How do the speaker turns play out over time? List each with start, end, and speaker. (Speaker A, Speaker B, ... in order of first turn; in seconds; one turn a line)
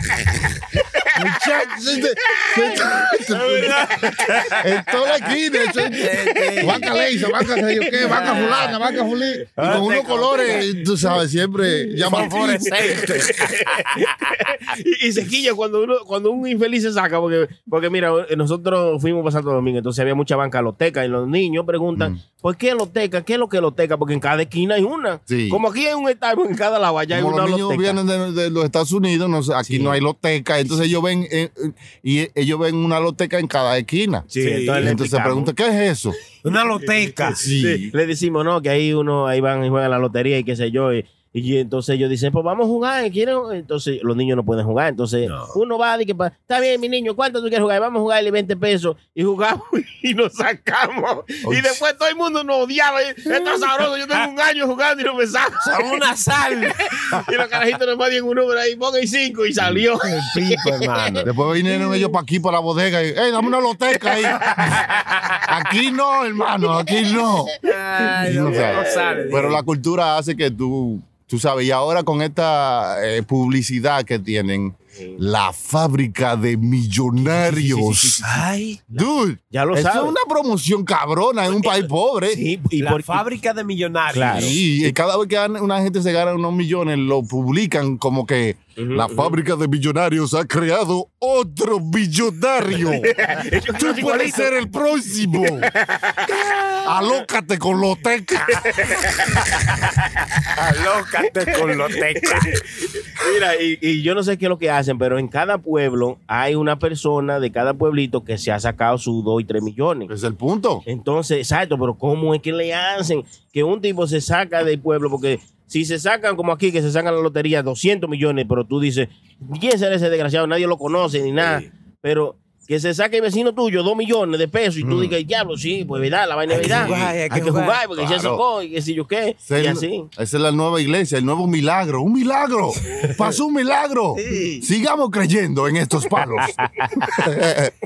Speaker A: 1.1-13.0
Speaker B: 3.3-4.7
Speaker B: 5.9-7.0
Speaker C: 6.4-8.8
Speaker B: 7.9-8.8
Speaker B: 9.6-10.6
Speaker C: 9.6-10.9
Speaker B: 12.0-13.8
Speaker C: 12.0-28.0
Speaker A: 25.3-25.6
Speaker A: 27.1-36.2
Speaker C: 29.6-30.0
Speaker B: 34.3-34.9
Speaker C: 34.3-35.5
Speaker B: 36.4-37.4
Speaker C: 37.0-56.0
Speaker A: 37.4-37.9
Speaker B: 45.2-45.5
Speaker A: 51.4-51.8
Speaker B: 55.6-56.8
Speaker C: 57.0-61.2
Speaker B: 60.0-61.3
Speaker A: 61.2-64.6
Speaker C: 64.6-64.8
Speaker A: 65.4-67.6
Speaker B: 67.6-69.6
Speaker C: 68.0-69.4
Speaker A: 68.2-78.4
Speaker B: 77.3-78.8
Speaker C: 78.9-80.1
Speaker A: 78.9-82.4
Speaker C: 82.3-83.2
Speaker B: 82.8-84.6
Speaker C: 84.1-84.9
Speaker A: 84.2-93.2
Speaker C: 88.8-89.3
Speaker C: 92.7-94.5
Speaker A: 93.7-95.7
Speaker C: 95.4-97.2
Speaker A: 96.8-98.8
Speaker C: 98.5-99.5
Speaker B: 100.5-102.5
Speaker C: 101.5-110.1
Speaker A: 110.1-110.8
Speaker C: 110.8-130.1
Speaker A: 124.8-125.2
Speaker B: 126.5-127.8
Speaker A: 126.5-127.2
Speaker A: 127.9-128.4
Speaker A: 129.4-137.7
Speaker B: 134.2-134.7